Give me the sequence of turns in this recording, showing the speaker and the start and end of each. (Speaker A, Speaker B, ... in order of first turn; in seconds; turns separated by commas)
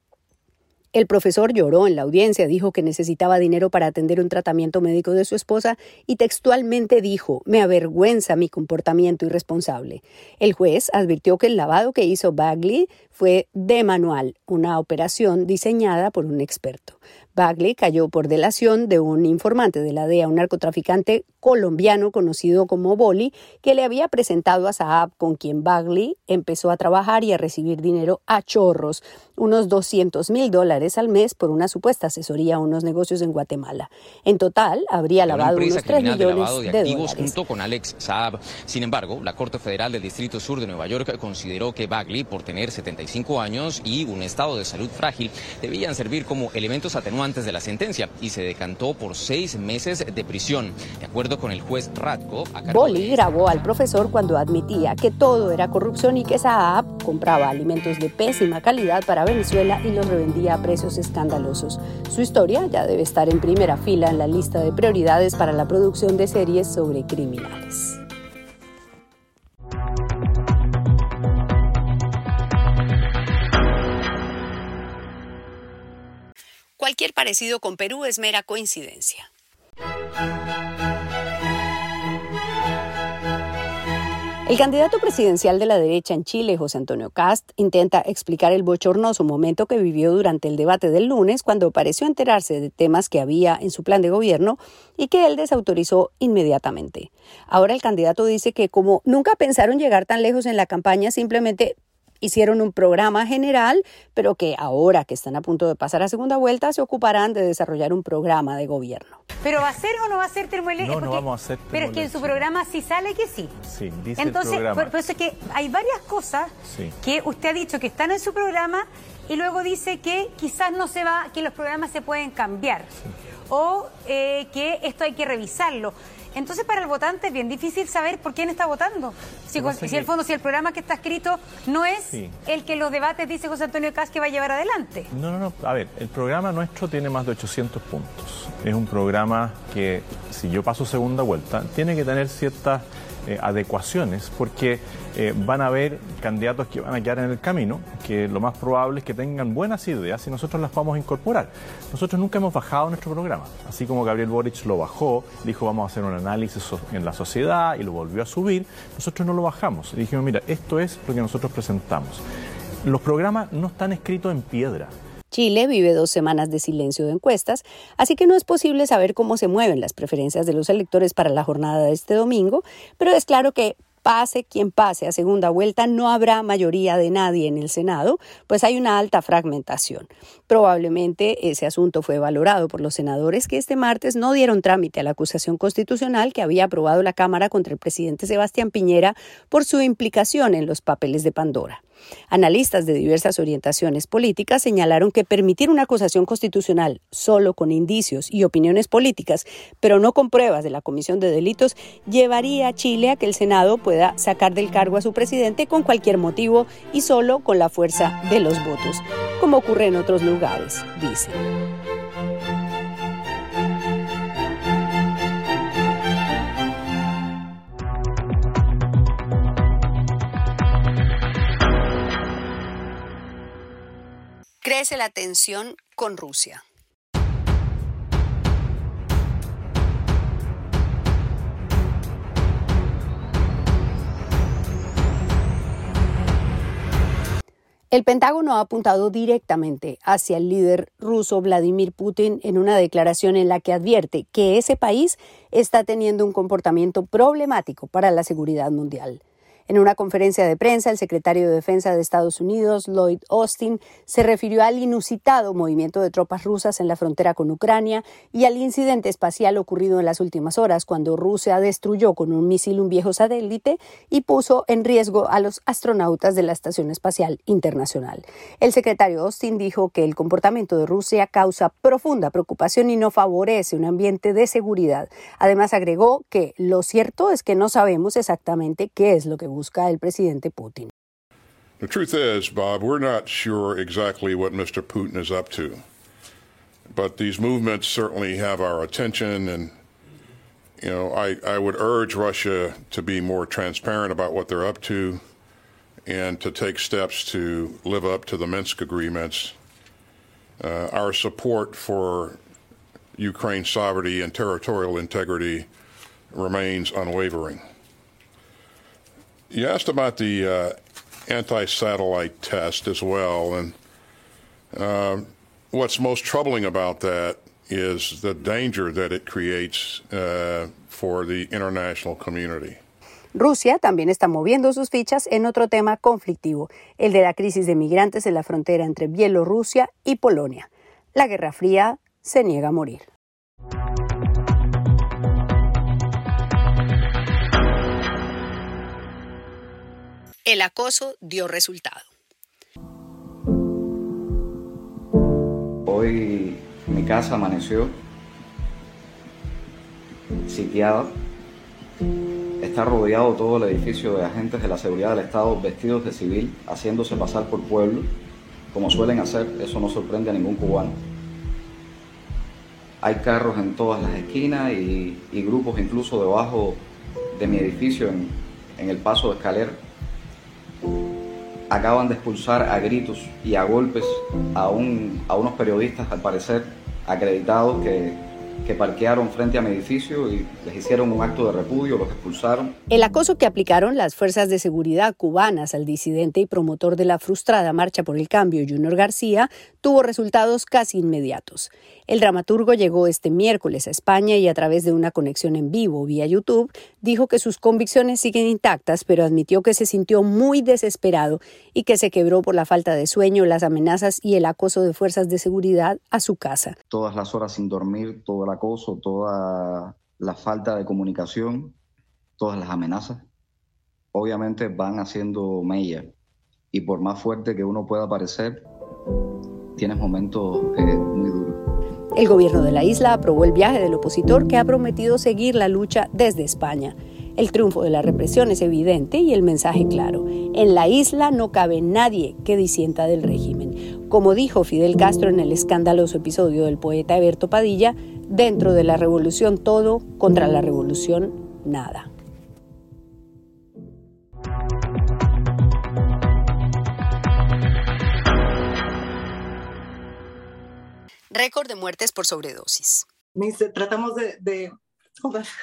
Speaker A: 0.9-37.4, Speaker B: 35.3-53.2, Speaker A: 52.6-68.0, Speaker A: 76.8-79.3, Speaker A: 84.5-109.2, Speaker C: 109.4-113.5, Speaker D: 110.8-112.5, Speaker D: 113.6-115.1, Speaker C: 114.2-122.9, Speaker D: 116.7-117.0, Speaker C: 123.5-135.1, Speaker D: 129.5-130.1, Speaker D: 132.0-132.3, Speaker D: 135.1-162.2, Speaker D: 162.8-164.9, Speaker A: 165.3-211.5, Speaker A: 224.6-226.6, Speaker A: 237.9-280.9, Speaker E: 281.8-285.8, Speaker E: 286.9-289.7, Speaker E: 290.8-295.2, Speaker E: 296.1-299.6, Speaker E: 300.6-302.4, Speaker E: 303.2-305.7, Speaker E: 306.3-307.6, Speaker E: 309.5-310.7, Speaker E: 311.3-313.7, Speaker E: 314.8-322.8, Speaker A: 323.3-333.1, Speaker A: 340.4-342.1, Speaker F: 345.9-348.0, Speaker F: 350.4-351.2, Speaker F: 352.6-358.1, Speaker F: 358.7-361.0, Speaker F: 363.0-369.8, Speaker F: 371.7-382.8, Speaker A: 382.9-406.8, Speaker F: 406.9-411.8, Speaker F: 412.4-413.3, Speaker F: 414.1-416.1, Speaker F: 416.7-418.7, Speaker F: 419.8-421.6, Speaker A: 422.1-442.1, Speaker A: 451.3-453.1, Speaker G: 453.4-455.5